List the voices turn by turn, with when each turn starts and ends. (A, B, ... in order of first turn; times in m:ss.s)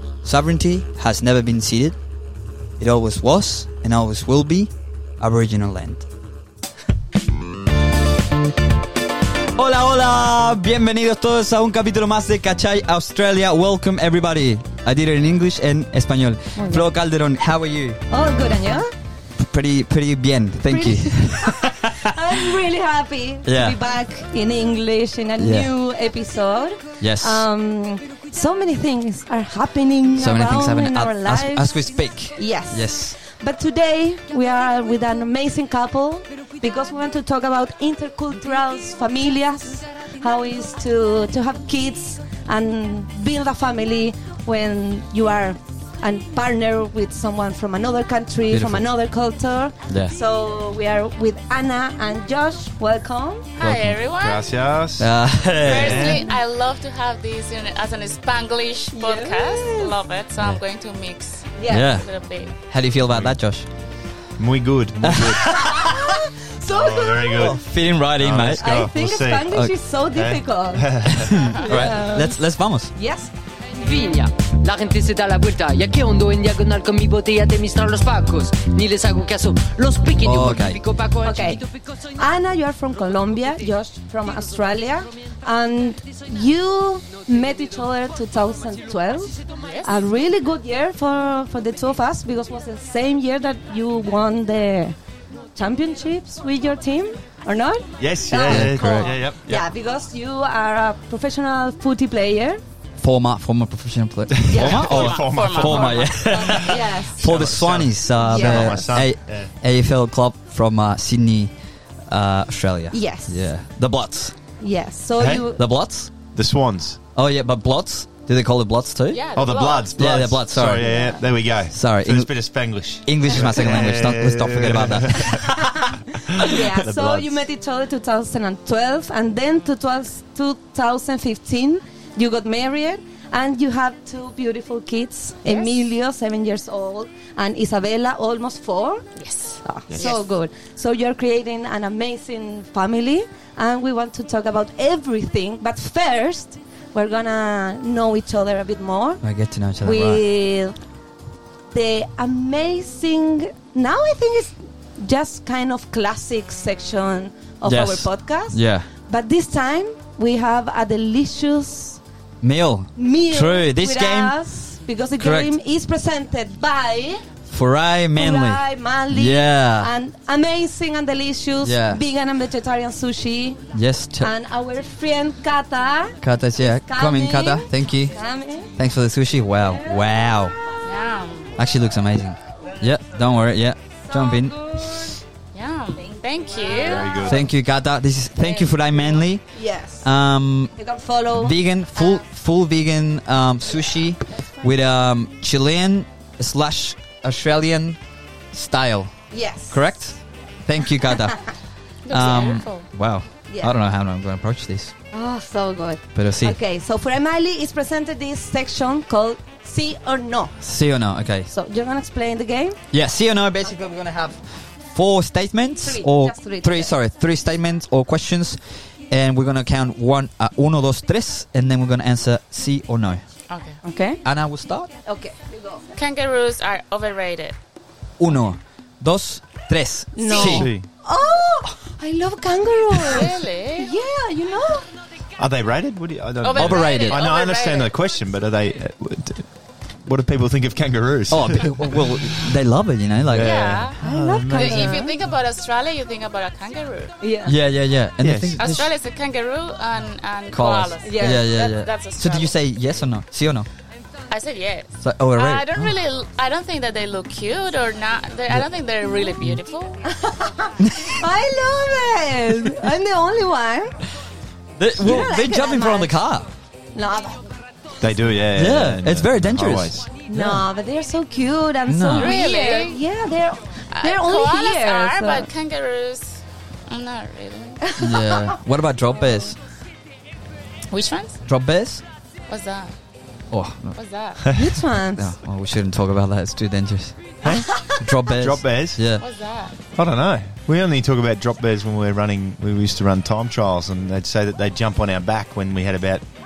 0:00.2-0:02.0 A
0:02.8-0:06.1 A
0:09.6-0:18.0 A
0:16.6-0:16.8 B
0:18.1-0:18.9 B
0:19.4-0:22.2 A
0:20.7-0:53.5 B
0:23.5-0:23.8 A
0:25.4-0:25.7 A
0:27.0-0:27.4 A
0:30.2-0:33.2 A
0:48.5-0:48.9 A
0:49.9-0:50.2 A
0:53.6-0:54.4 C
0:53.6-0:54.0 A
0:54.2-0:56.2 D
0:55.0-0:56.1 A
0:55.6-1:02.5 C
0:56.0-0:56.3 B
0:58.9-1:00.0 B
1:01.6-1:01.9 B
1:01.7-1:02.1 A
1:02.7-1:03.7 A
1:03.1-1:03.4 D
1:04.4-1:07.6 D
1:05.0-1:05.7 A
1:05.4-1:07.6 B
1:07.4-1:08.7 A
1:08.1-1:09.5 D
1:08.6-1:12.4 B
1:10.1-1:11.8 D
1:11.1-1:12.9 A
1:13.0-1:13.3 B
1:13.8-1:21.8 E
1:20.2-1:20.8 A
1:21.2-1:21.6 B
1:22.1-1:35.0 B
1:29.6-1:29.9 C
1:35.6-1:42.6 B
1:38.0-1:39.7 D
1:38.5-1:39.1 A
1:43.0-1:51.5 A
1:44.4-1:49.5 D
1:44.5-1:44.9 B
1:44.5-1:46.7 C
1:46.6-1:47.2 B
1:48.3-1:49.0 B
1:52.1-1:54.4 A
1:52.9-1:53.5 B
1:54.6-1:55.6 B
1:55.2-1:55.5 D
1:55.6-1:56.1 A
1:56.3-1:57.0 D
1:57.2-1:59.2 A
1:59.1-2:00.0 C
1:59.4-2:07.4 D
2:00.0-2:00.9 A
2:00.8-2:01.2 B
2:01.7-2:02.3 A
2:03.0-2:05.5 A
2:06.3-2:19.0 B
2:19.2-2:20.2 C
2:19.6-2:29.2 B
2:19.9-2:20.2 D
2:29.2-2:30.2 A
2:29.8-2:30.8 B
2:31.7-2:42.0 B
2:37.7-2:38.9 A
2:42.4-2:44.4 A
2:43.0-2:47.2 B
2:45.2-2:45.5 A
2:47.5-2:49.9 A
2:48.2-2:53.7 B
2:51.6-2:52.0 A
2:53.7-2:54.3 A
2:54.2-2:58.7 B
2:56.2-2:58.2 A
2:58.8-3:00.6 A
2:59.7-3:00.1 B
3:00.8-3:01.6 C
3:01.6-3:04.8 A
3:04.1-3:05.1 B
3:05.5-3:07.3 C
3:06.7-3:07.5 D
3:06.7-3:07.2 B
3:07.2-3:09.4 A
3:08.4-3:09.0 B
3:09.5-3:10.1 B
3:10.0-3:10.8 A
3:10.8-3:12.1 B
3:11.4-3:18.0 A
3:18.5-3:19.1 A
3:19.3-3:19.9 B
3:19.7-3:21.5 A
3:22.1-3:22.9 C
3:22.1-3:24.9 A
3:23.5-3:23.8 B
3:25.1-3:30.6 B
3:26.2-3:26.6 A
3:30.6-3:31.5 A
3:31.5-3:32.8 B
3:32.9-3:43.2 A
3:35.8-3:36.9 B
3:43.5-3:43.8 C
3:43.8-3:44.2 B
3:44.2-3:44.9 A
3:45.0-3:45.9 B
3:46.0-3:47.6 C
3:48.2-3:50.7 A
3:50.2-3:54.9 B
3:50.3-3:50.6 C
3:50.4-3:50.9 D
3:53.0-3:53.9 C
3:55.4-3:59.5 D
3:56.4-3:57.9 C
3:56.6-3:57.2 A
4:00.0-4:02.2 D
4:01.3-4:03.6 A
4:03.3-4:05.0 D
4:03.4-4:07.1 C
4:04.0-4:05.2 B
4:07.2-4:07.6 B
4:07.5-4:08.9 A
4:08.2-4:08.7 D
4:08.6-4:12.6 C
4:10.5-4:13.7 A
4:11.0-4:11.5 B
4:14.3-4:20.0 C
4:15.0-4:15.9 A
4:20.1-4:24.0 B
4:20.8-4:21.1 A
4:24.8-4:26.5 A
4:25.0-4:26.2 B
4:26.9-4:27.5 B
4:28.0-4:30.1 D
4:28.5-4:30.6 A
4:30.3-4:35.5 B
4:31.9-4:32.4 A
4:32.2-4:33.0 C
4:33.9-4:37.9 C
4:38.0-4:39.6 A
4:38.0-4:38.4 B
4:40.9-4:41.4 C
4:41.5-4:42.0 A
4:42.5-4:43.0 C
4:43.5-4:44.0 A
4:44.0-4:44.6 C
4:44.5-4:45.3 B
4:45.2-4:49.2 A
4:47.4-4:49.0 D
4:49.2-4:49.8 C
4:50.0-4:56.2 D